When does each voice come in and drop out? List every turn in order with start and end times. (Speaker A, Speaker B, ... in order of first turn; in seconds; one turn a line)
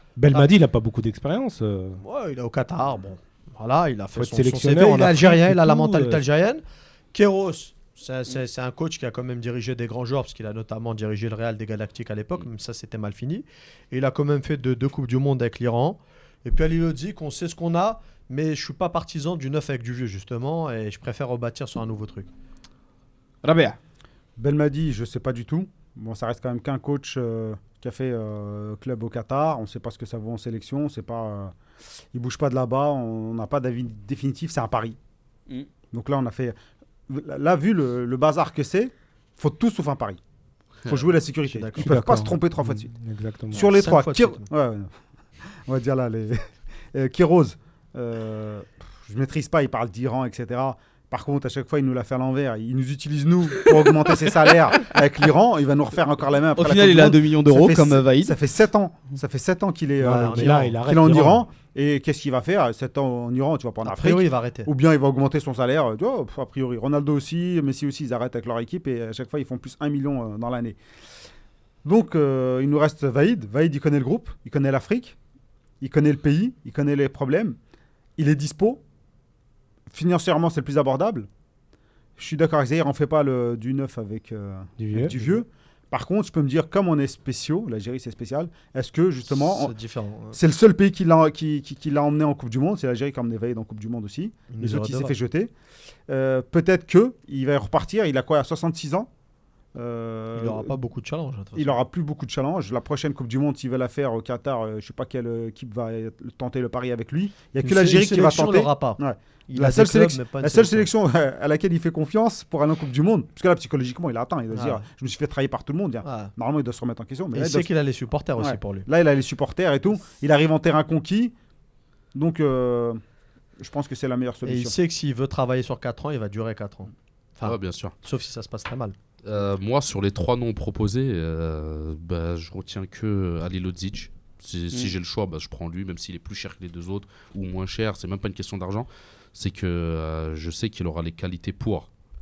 Speaker A: 0.2-2.0
Speaker B: 2.0-22.3
Speaker A: 4.1-6.2
Speaker C: 23.4-23.8
Speaker D: 24.4-31.5
Speaker D: 32.1-35.0
Speaker D: 35.9-36.6
Speaker D: 37.1-40.2
Speaker D: 40.8-42.9
Speaker B: 41.5-42.0
Speaker A: 41.7-43.7
Speaker D: 43.5-44.9
Speaker B: 43.5-44.5
Speaker D: 45.6-70.8
Speaker C: 56.5-58.4
Speaker B: 60.0-60.8
Speaker A: 60.3-61.4
Speaker B: 63.8-64.7
Speaker D: 71.8-75.2
Speaker D: 75.8-77.6
Speaker D: 78.2-78.8
Speaker D: 79.9-81.3
Speaker D: 82.2-89.7
Speaker A: 84.8-85.2
Speaker B: 89.3-90.4
Speaker D: 90.3-95.5
Speaker B: 94.5-95.2
Speaker D: 96.1-99.1
Speaker D: 99.7-100.8
Speaker B: 100.3-101.8
Speaker D: 101.5-117.7
Speaker B: 107.6-110.9
Speaker B: 114.5-114.8
Speaker B: 116.0-116.3
Speaker B: 117.3-118.9
Speaker D: 118.4-121.3
Speaker D: 122.1-123.0
Speaker D: 123.6-124.7
Speaker B: 124.4-128.9
Speaker E: 127.4-127.9
Speaker E: 129.2-141.9